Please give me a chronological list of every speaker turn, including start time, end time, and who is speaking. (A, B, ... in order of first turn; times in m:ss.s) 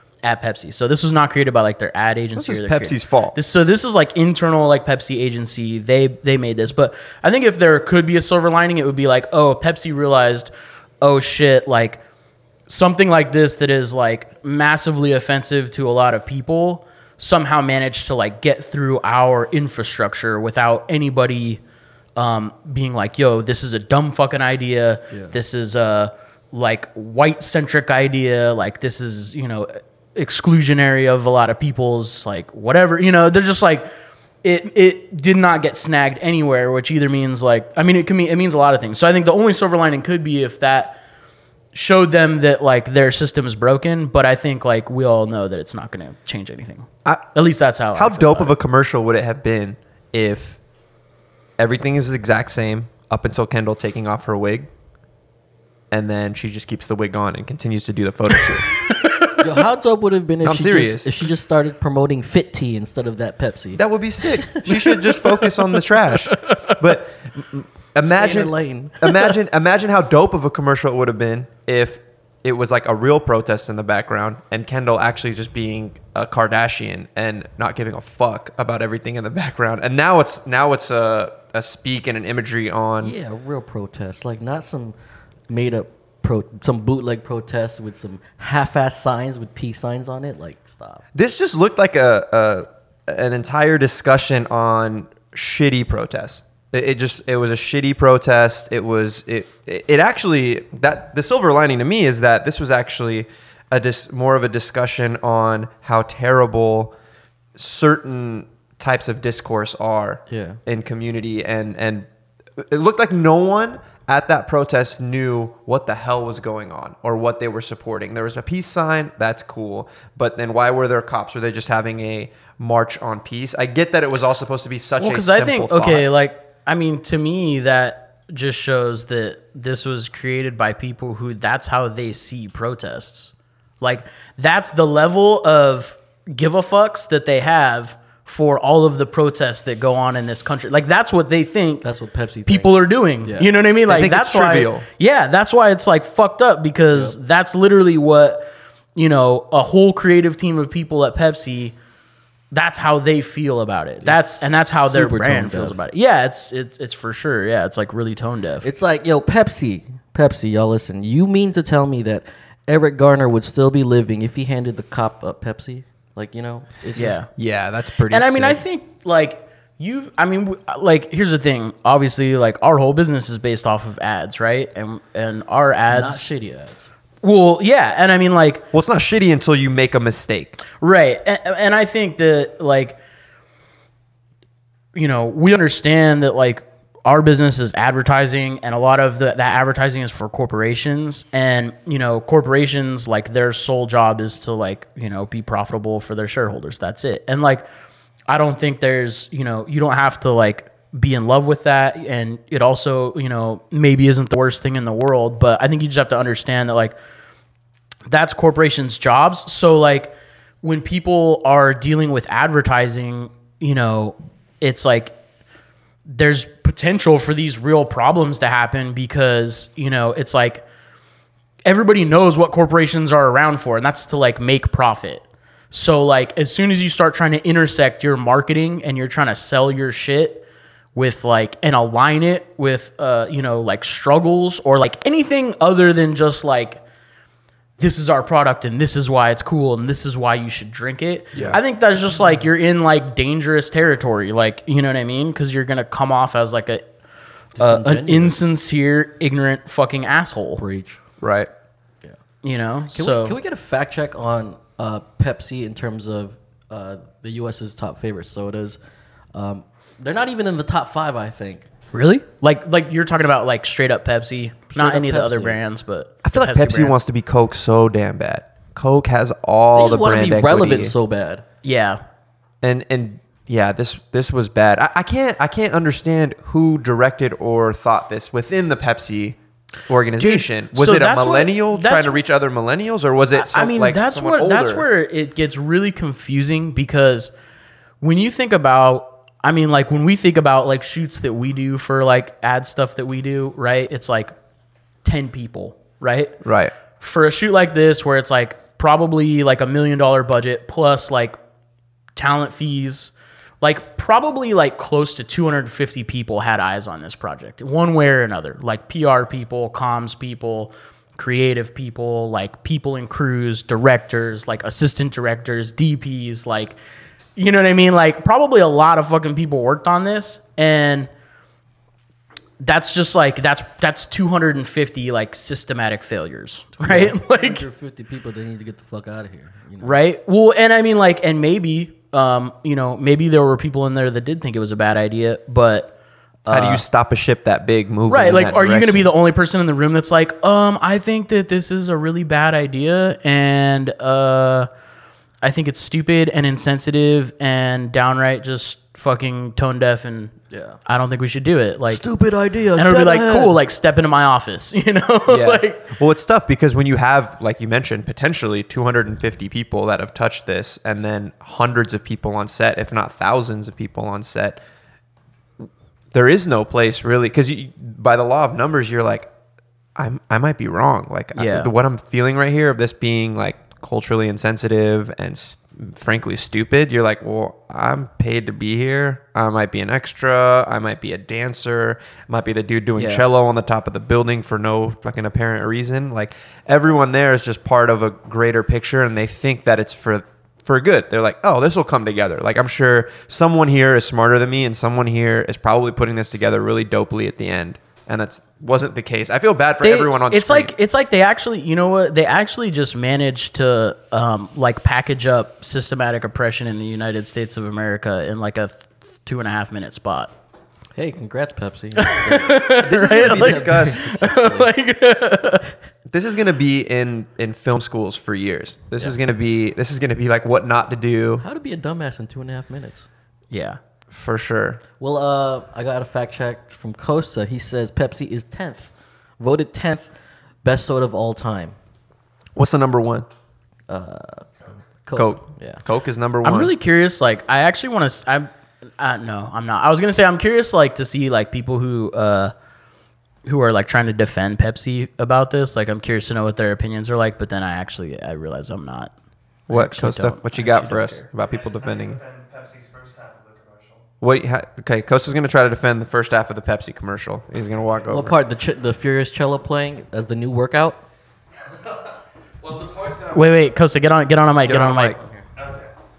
0:00.2-0:12.0 A
0:02.4-0:03.4 B
0:12.7-0:21.6 A
0:22.2-0:33.9 A
0:34.4-0:41.0 A
0:41.7-0:48.6 A
0:48.0-0:50.6 B
0:51.6-0:54.7 B
0:55.9-0:58.7 B
0:59.0-0:59.4 A
0:59.4-1:05.3 C
1:00.4-1:01.1 B
1:03.8-1:23.2 B
1:08.0-1:09.3 C
1:23.0-1:25.0 C
1:25.5-1:31.0 C
1:31.2-1:46.9 B
1:47.6-2:06.1 B
1:50.3-1:50.6 C
2:05.0-2:21.8 A
2:21.8-2:23.5 C
2:22.5-2:31.8 A
2:23.9-2:24.9 B
2:32.5-2:38.7 A
2:34.0-2:35.8 C
2:38.6-2:47.2 C
2:47.0-2:47.3 A
2:47.3-2:48.6 B
2:48.1-2:56.2 A
2:55.9-2:56.9 C
2:57.2-2:58.6 A
2:58.7-3:00.6 B
3:00.8-3:03.0 A
3:04.9-3:17.7 A
3:18.3-3:27.0 A
3:28.1-3:35.2 A
3:36.1-3:40.6 A
3:41.6-3:56.8 A
3:57.8-4:06.9 A
4:01.3-4:01.6 B
4:07.6-4:08.4 C
4:07.6-4:10.6 A
4:10.6-4:11.0 C
4:11.2-4:11.5 B
4:12.4-4:13.4 A
4:12.9-4:18.8 C
4:19.3-4:21.7 C
4:21.9-4:27.0 A
4:24.8-4:25.6 C
4:26.2-4:31.0 B
4:29.8-4:31.4 C
4:31.6-4:32.0 A
4:32.6-4:39.4 B
4:39.9-4:44.9 B
4:40.2-4:42.2 A
4:43.3-4:47.3 A
4:48.0-4:54.3 A
4:55.0-4:56.4 A
4:56.4-4:56.7 B
4:57.0-5:01.4 A
5:02.2-5:16.8 A
5:17.4-5:21.1 A
5:22.6-5:27.7 A
5:26.8-5:30.0 C
5:29.8-5:35.9 A
5:36.4-5:36.8 A
5:36.5-5:39.1 B
5:38.1-5:44.7 A
5:45.4-5:52.0 A
5:50.5-5:50.8 C
5:51.9-5:53.5 B
5:52.7-5:56.0 A
5:55.3-6:04.6 B
6:05.6-6:09.3 B
6:10.0-6:40.7 B
6:11.4-6:11.7 A
6:23.0-6:23.2 A
6:39.8-6:50.3 A
6:51.0-6:54.6 C
6:52.0-6:55.7 A
6:52.7-6:54.7 B
6:56.1-7:01.4 B
7:01.4-7:03.1 C
7:03.5-7:03.8 A
7:04.1-7:04.8 B
7:05.0-7:10.1 C
7:10.6-7:11.8 C
7:12.6-7:13.3 B
7:13.9-7:15.8 C
7:15.2-7:16.8 B
7:16.4-7:22.5 A
7:23.4-7:29.1 A
7:29.7-7:32.2 B
7:29.7-7:31.3 A
7:31.4-7:34.0 D
7:34.2-7:38.4 B
7:38.1-7:41.0 C
7:42.6-7:43.7 D
7:43.3-7:45.2 A
7:44.6-7:45.2 B
7:45.0-7:45.4 C
7:45.6-7:45.9 D